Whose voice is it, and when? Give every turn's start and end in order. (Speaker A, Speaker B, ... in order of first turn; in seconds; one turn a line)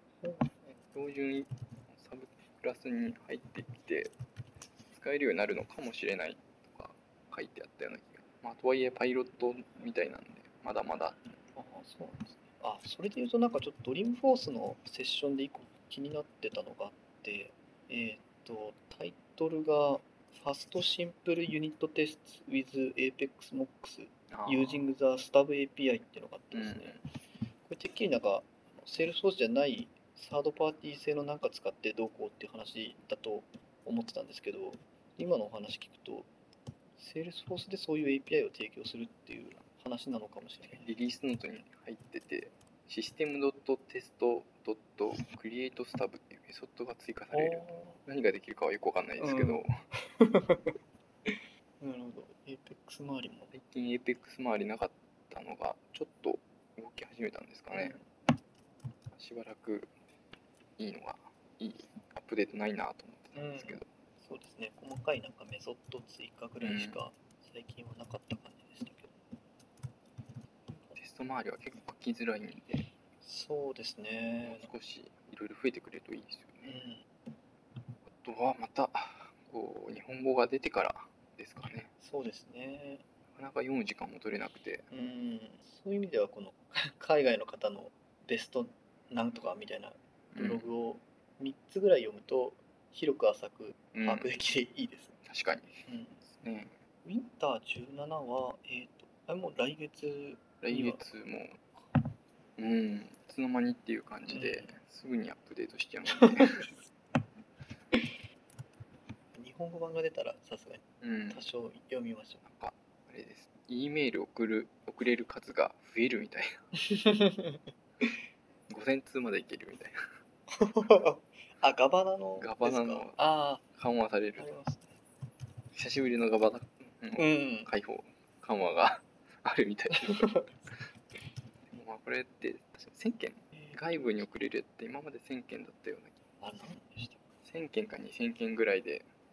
Speaker A: 0.2-0.8
Speaker B: 0.9-4.1
Speaker B: 4.9-11.3
Speaker A: 11.5-27.0
Speaker B: 24.3-24.8
Speaker B: 26.5-27.0
Speaker A: 27.6-36.3
Speaker A: 37.0-40.9
Speaker B: 40.7-49.7
Speaker A: 47.3-48.0
Speaker A: 49.2-53.5
Speaker B: 53.5-58.0
Speaker A: 57.7-58.0
Speaker B: 59.1-59.9
Speaker B: 60.8-63.9
Speaker A: 63.3-69.1
Speaker B: 66.6-67.0
Speaker A: 70.7-70.9
Speaker B: 71.0-72.9
Speaker A: 73.2-74.7
Speaker B: 74.4-76.8
Speaker A: 76.6-77.0
Speaker B: 78.1-81.9
Speaker A: 82.0-83.0
Speaker B: 83.3-84.9
Speaker A: 84.9-95.2
Speaker B: 90.3-90.7
Speaker B: 93.9-94.3
Speaker B: 95.2-96.8
Speaker A: 95.9-96.2
Speaker A: 97.0-101.0
Speaker B: 100.6-101.6
Speaker B: 102.6-106.7
Speaker A: 104.3-104.7
Speaker A: 106.2-106.8
Speaker A: 109.3-112.4
Speaker B: 111.0-111.4
Speaker B: 112.4-116.6
Speaker A: 116.8-118.2
Speaker B: 118.7-120.0
Speaker A: 120.5-123.6
Speaker B: 122.4-123.2
Speaker B: 123.7-124.5
Speaker A: 124.4-124.9
Speaker B: 125.7-130.5
Speaker A: 127.2-127.7
Speaker A: 130.0-130.4
Speaker B: 131.7-136.2
Speaker A: 133.5-134.0
Speaker A: 136.4-137.2
Speaker B: 137.4-139.1